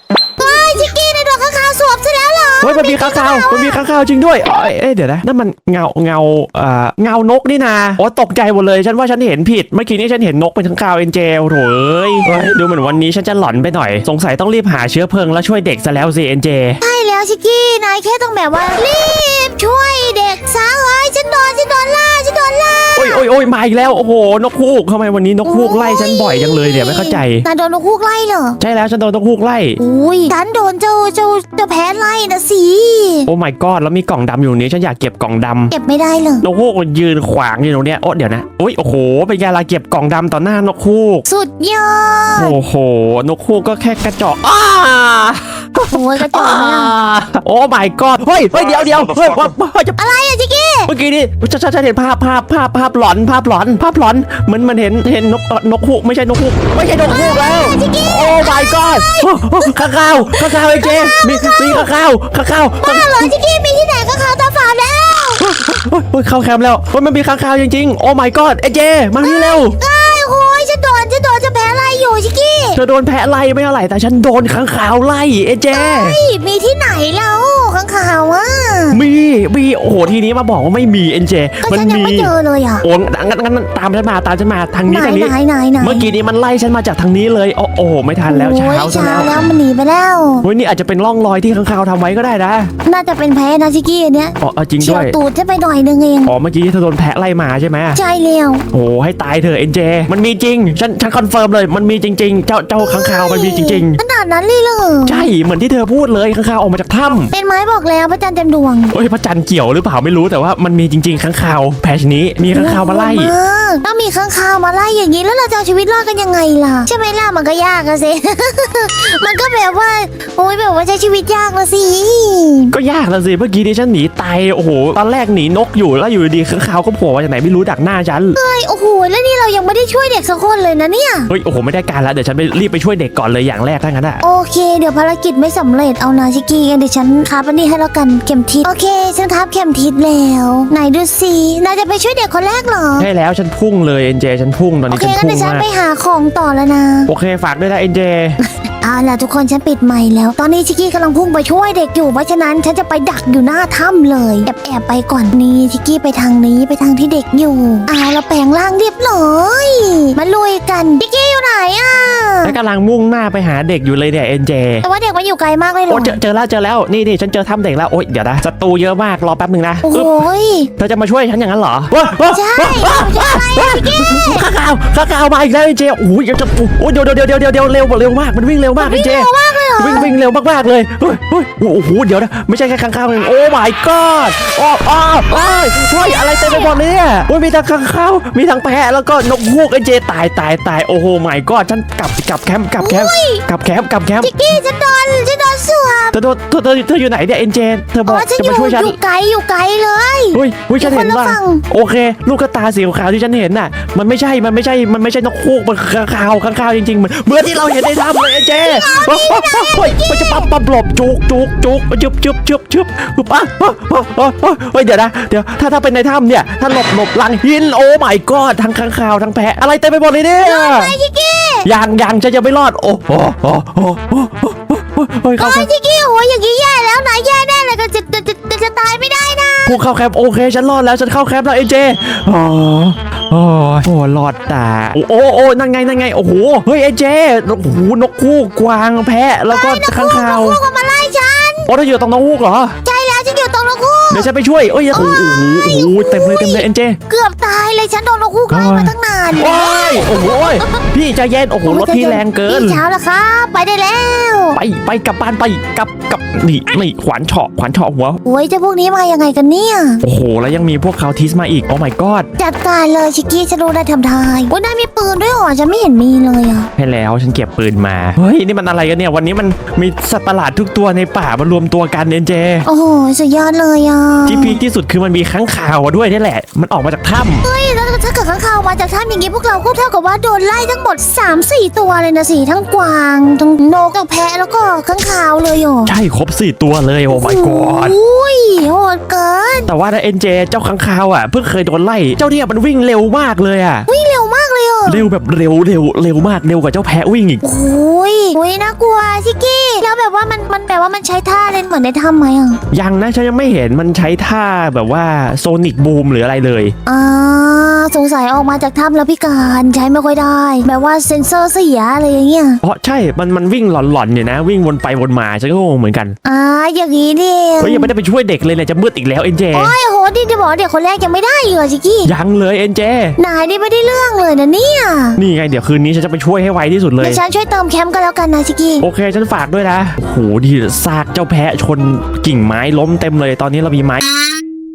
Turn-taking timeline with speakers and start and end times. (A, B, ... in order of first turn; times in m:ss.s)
0:00.4-0:03.8 A
0:02.6-0:16.8 B
0:16.8-0:23.2 A
0:23.0-0:27.4 B
0:25.4-0:28.6 A
0:28.6-0:29.8 B
0:29.8-0:33.3 A
0:33.3-0:35.7 B
0:35.7-0:36.4 A
0:36.4-0:41.2 B
0:41.3-0:42.5 A
0:42.4-0:50.0 B
0:45.9-0:46.9 A
0:50.0-0:50.9 A
0:50.9-1:03.3 B
0:57.0-1:01.9 A
1:02.8-1:05.4 A
1:05.4-1:09.8 B
1:09.2-1:12.8 A
1:12.7-1:16.2 B
1:15.7-1:19.0 A
1:18.9-1:29.4 B
1:21.6-1:22.8 A
1:24.9-1:26.1 A
1:28.3-1:30.4 A
1:30.4-1:32.7 B
1:32.8-1:36.3 A
1:34.4-1:35.2 B
1:36.2-1:38.0 B
1:37.9-1:38.6 A
1:38.7-1:44.0 B
1:42.8-1:45.3 A
1:45.0-1:47.3 B
1:47.3-1:48.9 A
1:48.9-1:53.3 B
1:52.5-2:02.7 A
2:02.7-2:08.4 B
2:08.4-2:11.3 A
2:11.3-2:14.2 B
2:14.2-2:23.1 A
2:23.0-2:25.6 B
2:24.9-2:27.1 A
2:27.1-2:28.4 B
2:28.5-2:42.6 A
2:42.4-2:44.8 B
2:44.8-2:46.2 A
2:45.9-2:50.1 B
2:49.8-2:50.7 A
2:50.8-3:14.4 B
2:52.3-2:54.5 A
2:58.8-3:00.1 A
3:06.0-3:06.8 A
3:12.8-3:13.4 A
3:14.2-3:16.2 A
3:16.1-3:18.9 B
3:18.0-3:21.6 A
3:20.3-3:41.0 B
3:28.6-3:30.5 A
3:40.4-3:41.7 A
3:41.6-3:45.7 B
3:45.4-3:49.8 A
3:49.6-4:00.6 B
3:59.5-4:01.7 A
4:01.7-4:02.8 B
4:02.8-4:04.3 A
4:04.1-4:07.0 B
4:04.9-4:10.8 A
4:08.5-4:12.8 B
4:11.6-4:14.6 A
4:14.5-4:18.2 B
4:18.2-4:20.0 A
4:20.0-4:22.3 B
4:22.4-4:26.7 A
4:26.8-4:32.7 B
4:32.6-4:34.6 A
4:34.2-4:37.4 B
4:37.4-4:45.9 A
4:45.8-4:48.0 B
4:47.1-4:49.7 A
4:49.7-4:53.9 B
4:53.9-4:55.1 A
4:54.8-4:57.4 B
4:57.4-5:02.6 A
5:02.7-5:06.7 B
5:06.8-5:12.6 A
5:12.6-5:16.1 B
5:16.2-5:17.9 A
5:17.6-5:19.7 B
5:19.5-5:22.1 A
5:22.0-5:23.2 B
5:23.2-5:25.2 A
5:25.2-5:27.2 B
5:27.0-5:28.8 A
5:28.8-5:34.0 B